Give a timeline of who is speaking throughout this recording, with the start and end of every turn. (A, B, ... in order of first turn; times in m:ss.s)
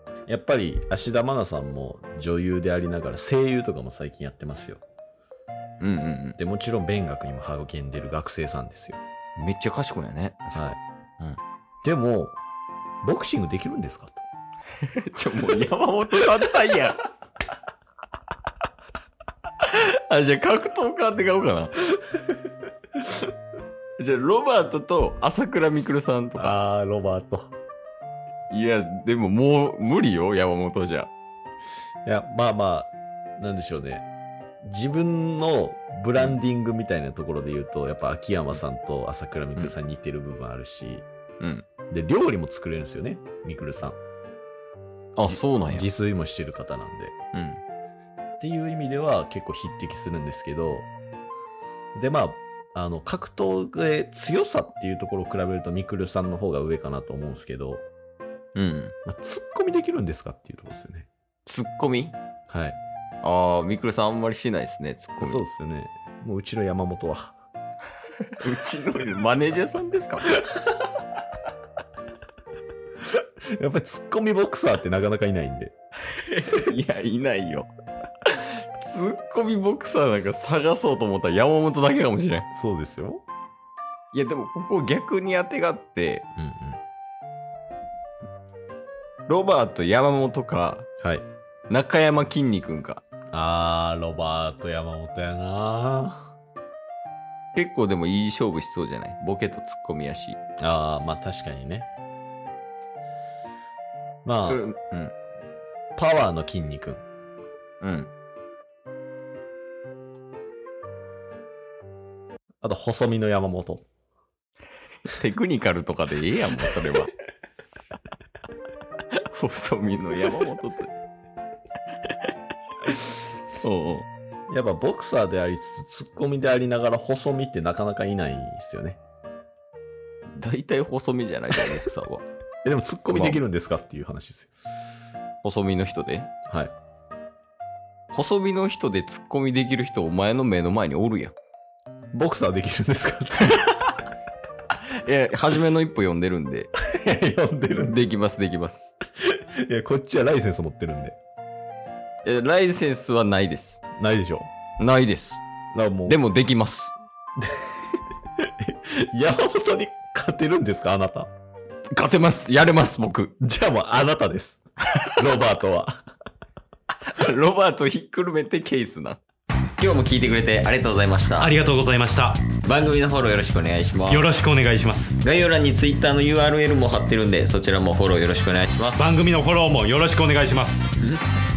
0:00.3-0:04.8 A
0:05.8-0:06.4 B
0:06.4-0:09.0 A
0:09.4-0:11.4 B
0:11.8-0:12.4 A
0:13.0-0:14.2 A
0:14.8-0:17.0 B
0:19.6-0:21.8 B
0:24.0-0:26.6 B
0:26.4-0:27.5 A
0:28.5-0:31.1 B
0:32.0-0:34.1 A
0:34.6-0:41.0 A
0:36.1-0:36.4 B
0:41.4-0:41.7 B
0:41.9-0:44.0 A
0:45.2-0:45.9 B
0:45.3-0:47.1 A
0:47.3-0:47.6 B
0:48.4-0:50.9 A
0:51.9-0:57.8 A
0:58.5-0:58.9 B
0:59.0-1:01.1 A
1:01.4-1:02.2 B
1:02.5-1:02.8 A
1:03.2-1:05.4 B
1:05.2-1:07.4 A
1:08.4-1:10.3 B
1:13.6-1:15.7 A
1:16.1-1:17.7 B
1:18.3-1:22.5 B
1:22.5-1:23.2 A
1:24.1-1:26.2 B
1:26.4-1:26.8 A
1:29.3-1:30.9 B
1:31.0-1:31.3 A
1:31.7-1:33.0 B
1:33.3-1:36.3 A
1:37.5-1:40.4 B
1:40.6-1:41.9 A
1:44.2-1:44.6 A
1:44.4-1:45.1 B
1:46.0-1:47.0 A
1:47.8-1:48.1 B
1:52.6-1:53.8 A
1:55.1-1:57.1 B
1:59.2-2:00.9 B
2:03.6-2:04.1 B
2:04.5-2:09.0 A
2:10.3-2:12.2 B
2:12.6-2:14.5 A
2:13.1-2:13.4 B
2:15.4-2:16.3 B
2:16.5-2:16.7 A
2:18.1-2:21.3 B
2:22.1-2:23.8 A
2:24.7-2:26.7 B
2:26.9-2:28.0 A
2:27.8-2:28.9 B
2:29.6-2:31.2 A
2:32.2-2:33.8 B
2:34.0-2:34.5 A
2:34.8-2:35.4 B
2:35.7-2:36.2 A
2:36.0-2:37.0 B
2:37.4-2:37.7 A
2:38.6-2:41.3 A
2:41.9-2:43.3 B
2:43.4-2:44.6 A
2:45.2-2:46.0 A
2:47.1-2:49.2 B
2:49.8-2:51.6 B
2:51.4-2:52.4 C
2:52.6-2:54.3 B
2:54.1-2:55.2 C
2:55.2-2:59.0 B
2:59.0-3:00.9 C